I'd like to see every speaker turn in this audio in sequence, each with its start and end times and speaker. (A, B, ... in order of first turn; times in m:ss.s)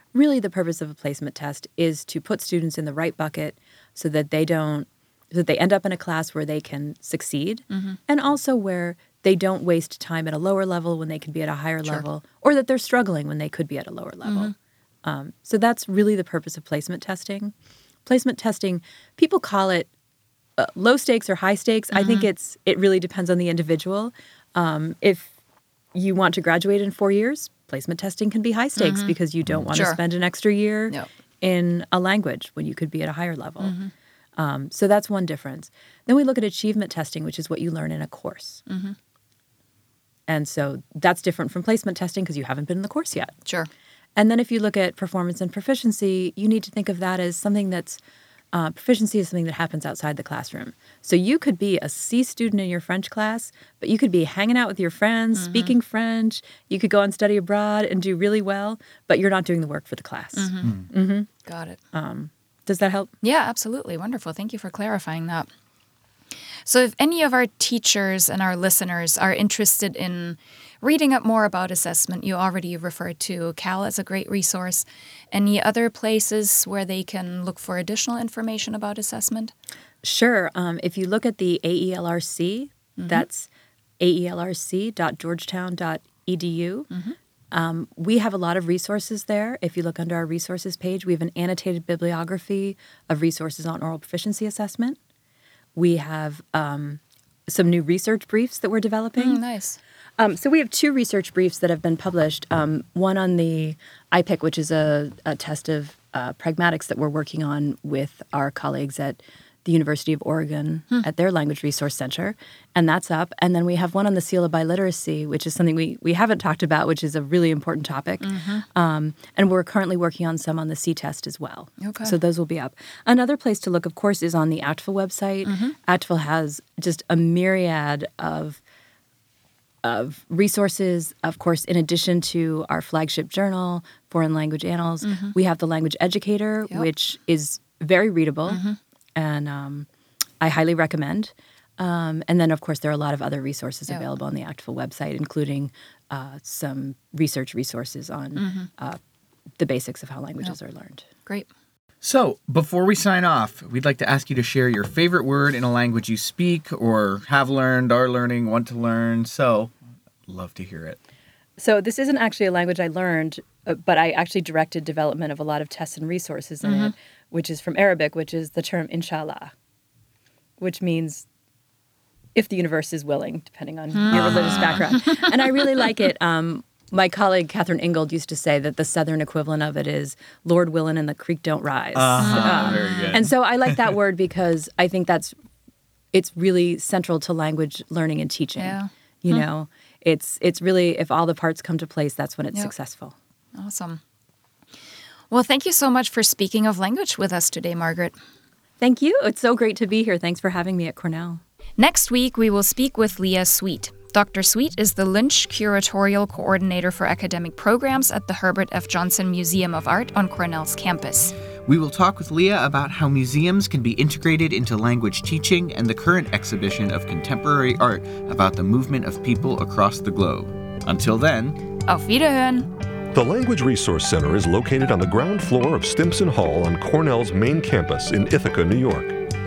0:00.1-0:14.5 A
0:07.7-0:08.0 B
0:14.2-0:14.5 B
0:15.0-0:17.5 A
0:18.0-0:19.9 A
0:20.6-0:25.3 A
0:21.9-0:22.3 B
0:25.9-0:33.7 A
0:28.8-0:29.1 B
0:29.7-0:30.0 B
0:33.6-0:33.9 B
0:34.4-0:38.6 A
0:38.7-0:39.0 B
0:40.3-0:43.4 A
0:43.4-0:43.7 B
0:44.2-0:48.0 A
0:48.5-1:01.3 A
0:55.4-0:55.7 B
1:00.3-1:00.8 B
1:01.4-1:01.8 B
1:01.9-1:03.1 A
1:03.2-1:05.5 B
1:06.6-1:19.5 B
1:20.0-1:26.9 A
1:23.0-1:23.2 B
1:27.5-1:35.0 A
1:35.7-1:39.4 A
1:39.2-1:39.8 B
1:40.2-2:08.6 A
1:58.2-1:58.6 B
2:01.8-2:02.1 B
2:05.4-2:05.7 B
2:09.8-2:18.6 A
2:15.0-2:15.3 B
2:18.5-2:18.8 B
2:19.2-2:19.9 A
2:20.4-2:29.0 A
2:28.4-2:28.7 B
2:29.6-2:31.0 A
2:32.0-2:39.7 C
2:40.3-2:41.0 C
2:41.6-2:49.5 A
2:46.6-2:46.9 B
2:50.6-2:51.3 A
2:52.4-3:05.3 A
2:54.0-2:54.3 B
2:54.1-2:54.8 C
3:01.9-3:03.8 C
3:02.2-3:03.2 B
3:06.1-3:13.1 A
3:08.6-3:09.4 B
3:13.5-3:14.0 B
3:15.3-3:18.2 B
3:18.8-3:21.4 A
3:21.8-3:31.3 B
3:31.6-3:41.6 C
3:41.8-3:42.7 B
3:43.1-3:49.2 D